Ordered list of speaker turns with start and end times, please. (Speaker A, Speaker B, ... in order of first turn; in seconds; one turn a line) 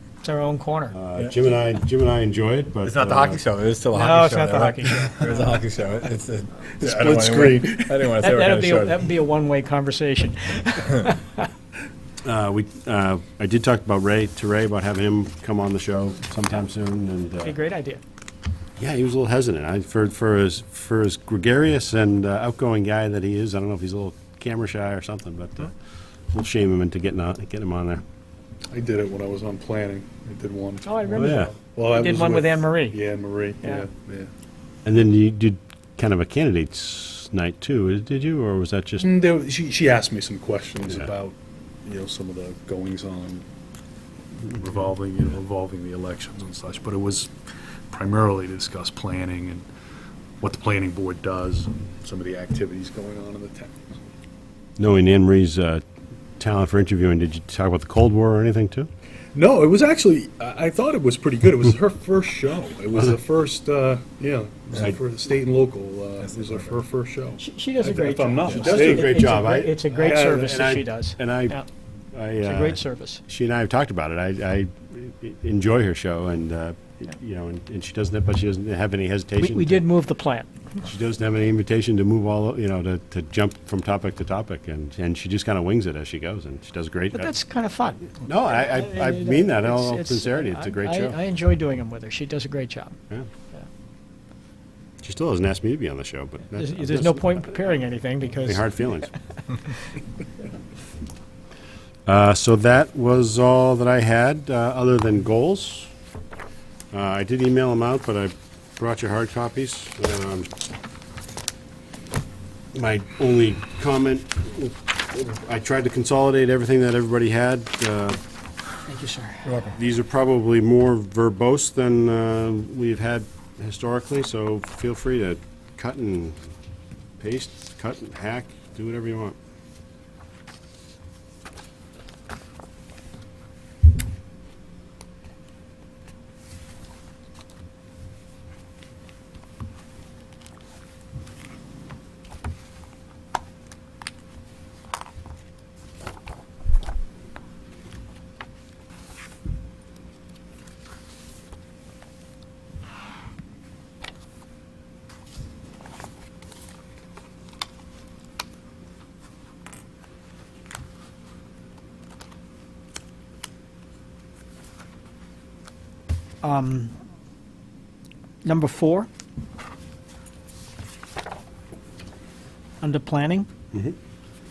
Speaker A: 0.2-1.0
Speaker B: 0.9-3.4
Speaker C: 2.8-9.1
Speaker A: 3.9-5.6
Speaker B: 6.8-8.1
Speaker A: 8.1-11.5
Speaker B: 12.2-17.6
Speaker A: 17.4-18.0
Speaker B: 18.8-25.7
Speaker B: 26.3-28.0
Speaker D: 28.7-34.3
Speaker A: 30.9-33.0
Speaker B: 31.1-31.5
Speaker A: 33.6-33.9
Speaker B: 34.8-39.1
Speaker D: 39.0-43.5
Speaker D: 44.5-47.3
Speaker D: 47.9-49.7
Speaker D: 50.4-54.0
Speaker B: 54.8-55.8
Speaker B: 56.4-58.9
Speaker D: 59.3-70.4
Speaker C: 66.2-66.8
Speaker A: 67.4-71.7
Speaker B: 68.5-71.6
Speaker B: 72.1-79.9
Speaker A: 72.4-73.2
Speaker A: 79.4-80.5
Speaker B: 80.8-87.3
Speaker A: 87.1-93.0
Speaker B: 88.2-91.2
Speaker B: 95.0-97.6
Speaker A: 96.5-99.7
Speaker B: 98.4-99.1
Speaker B: 102.1-105.9
Speaker B: 106.9-110.5
Speaker B: 112.7-118.2
Speaker A: 118.9-119.6
Speaker B: 119.7-126.4
Speaker B: 127.2-129.4
Speaker A: 166.4-166.9
Speaker A: 168.4-169.1
Speaker A: 172.8-173.5